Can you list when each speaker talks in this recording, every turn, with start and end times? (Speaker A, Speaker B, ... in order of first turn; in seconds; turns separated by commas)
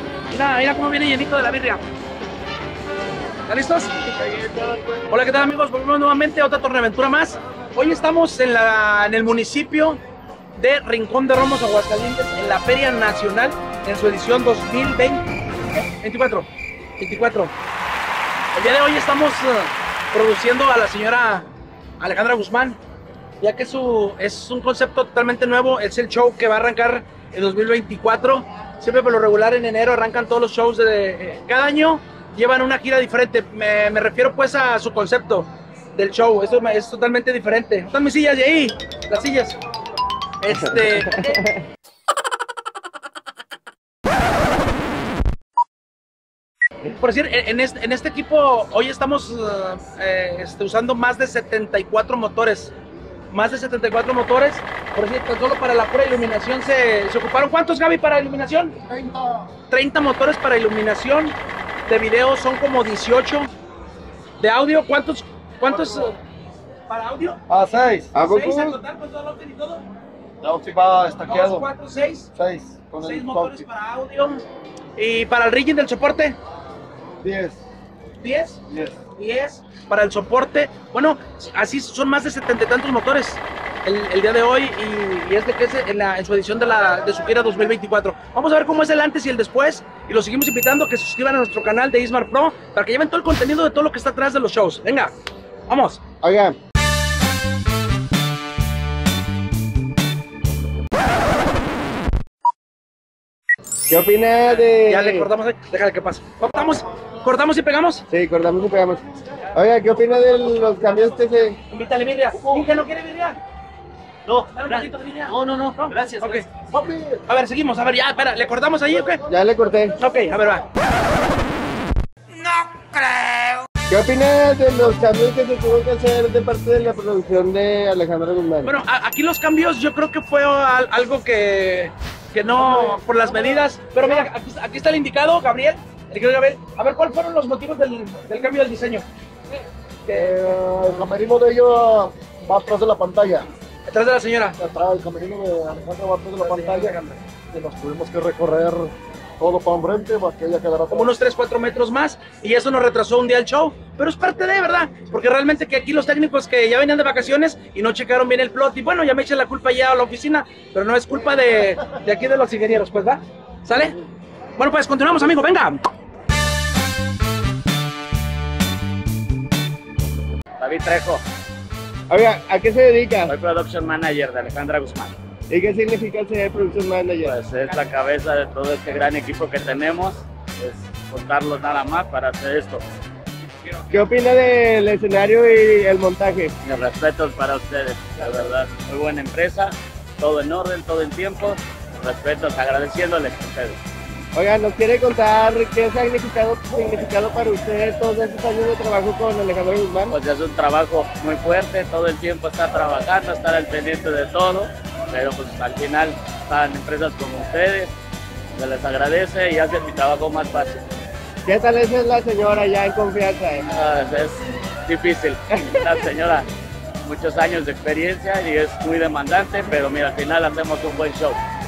Speaker A: 0.3-1.8, Speaker A: 3.5-4.2, Speaker B: 4.3-4.6, Speaker A: 5.1-10.0, Speaker A: 10.6-15.2, Speaker A: 16.0-16.5, Speaker A: 17.0-17.5, Speaker A: 18.5-21.5, Speaker A: 22.0-22.8, Speaker A: 23.4-39.6, Speaker A: 40.4-41.4, Speaker B: 40.5-41.6, Speaker A: 46.9-52.7, Speaker A: 53.3-58.8, Speaker A: 59.7-61.4, Speaker A: 61.9-63.5, Speaker A: 64.4-66.2, Speaker A: 66.9-67.4, Speaker C: 67.5-68.1, Speaker B: 68.1-68.8, Speaker A: 68.2-69.8, Speaker C: 70.4-71.7, Speaker A: 71.2-72.3, Speaker C: 72.3-73.6, Speaker A: 73.0-74.4, Speaker A: 75.0-76.4, Speaker C: 77.2-77.6, Speaker A: 78.2-95.1, Speaker A: 95.7-96.0, Speaker B: 96.2-96.6, Speaker B: 103.9-105.3, Speaker A: 104.7-108.0, Speaker B: 108.1-111.6, Speaker A: 111.7-113.4, Speaker D: 114.3-116.3, Speaker A: 114.5-119.2, Speaker B: 119.3-120.0, Speaker A: 120.0-120.7, Speaker B: 123.9-128.7, Speaker A: 128.6-139.1, Speaker A: 140.1-140.6, Speaker C: 140.1-143.5, Speaker A: 143.9-144.6, Speaker C: 144.6-147.0, Speaker A: 146.4-147.2, Speaker C: 147.5-151.1, Speaker A: 150.9-164.0, Speaker A: 164.6-165.8, Speaker D: 170.6-171.2, Speaker B: 172.1-173.3, Speaker D: 173.3-175.1, Speaker B: 175.5-177.4, Speaker D: 177.2-182.8, Speaker B: 183.9-186.5, Speaker D: 186.6-193.8, Speaker B: 194.3-200.2, Speaker D: 200.1-207.9, Speaker D: 208.6-210.8, Speaker B: 211.5-213.7, Speaker D: 213.7-216.5, Speaker D: 217.0-221.4